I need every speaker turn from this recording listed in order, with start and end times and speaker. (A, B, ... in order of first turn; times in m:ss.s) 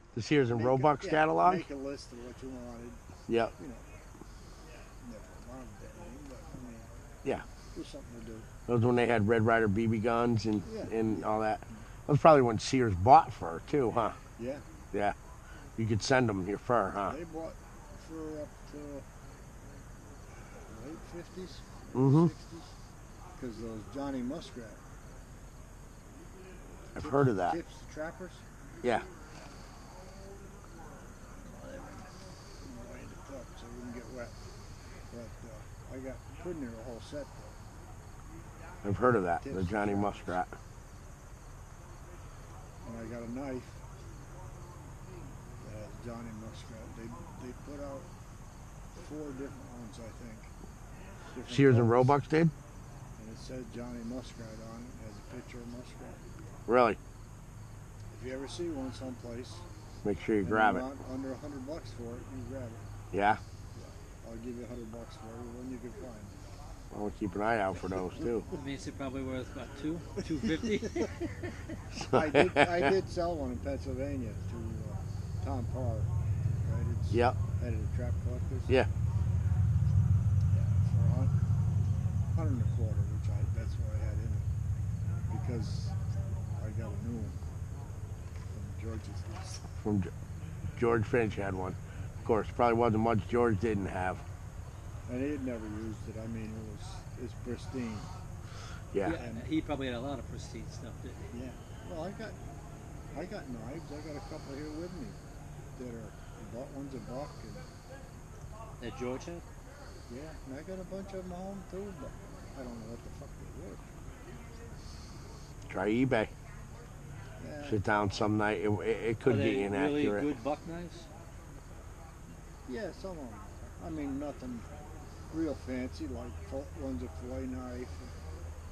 0:00.1-0:01.6 A
0:00.5-0:03.0 B
0:03.3-0:03.5 A
0:03.6-0:03.9 B
0:05.0-0:08.5 B
0:08.7-0:14.2 A
0:10.6-0:11.3 B
0:14.4-0:14.6 B
0:15.8-0:17.2 A
0:17.0-0:19.0 B
0:20.6-0:22.7 B
0:22.0-0:22.3 A
0:23.4-0:24.8 B
0:26.9-0:28.4 B
0:27.0-0:27.6 A
0:31.4-0:34.4 B
0:35.1-0:37.6 B
0:38.8-0:40.5 A
0:39.3-0:40.4 B
0:42.8-0:43.8 B
0:45.6-0:48.1 B
0:49.0-0:50.5 B
0:51.3-0:52.2 B
0:51.5-0:52.5 A
0:53.2-0:56.2 B
0:56.7-0:57.0 A
0:58.1-0:59.6 B
1:00.0-1:00.8 A
1:00.4-1:02.8 B
1:03.1-1:03.4 A
1:03.7-1:06.4 B
1:06.9-1:08.5 A
1:08.5-1:11.2 C
1:12.0-1:18.8 B
1:12.0-1:12.7 A
1:20.5-1:21.4 B
1:22.3-1:24.5 B
1:25.3-1:26.0 B
1:26.6-1:27.4 B
1:28.5-1:29.7 B
1:29.8-1:30.1 A
1:30.8-1:34.2 A
1:35.1-1:38.1 B
1:39.0-1:41.3 C
1:39.1-1:39.5 B
1:41.3-1:42.4 B
1:43.1-1:45.2 B
1:45.8-1:47.6 B
1:48.8-1:49.4 C
1:50.1-1:53.9 B
1:55.7-1:56.3 A
1:57.4-1:57.8 B
1:57.6-2:00.3 A
1:59.3-2:01.1 C
2:02.7-2:04.7 B
2:05.3-2:08.1 B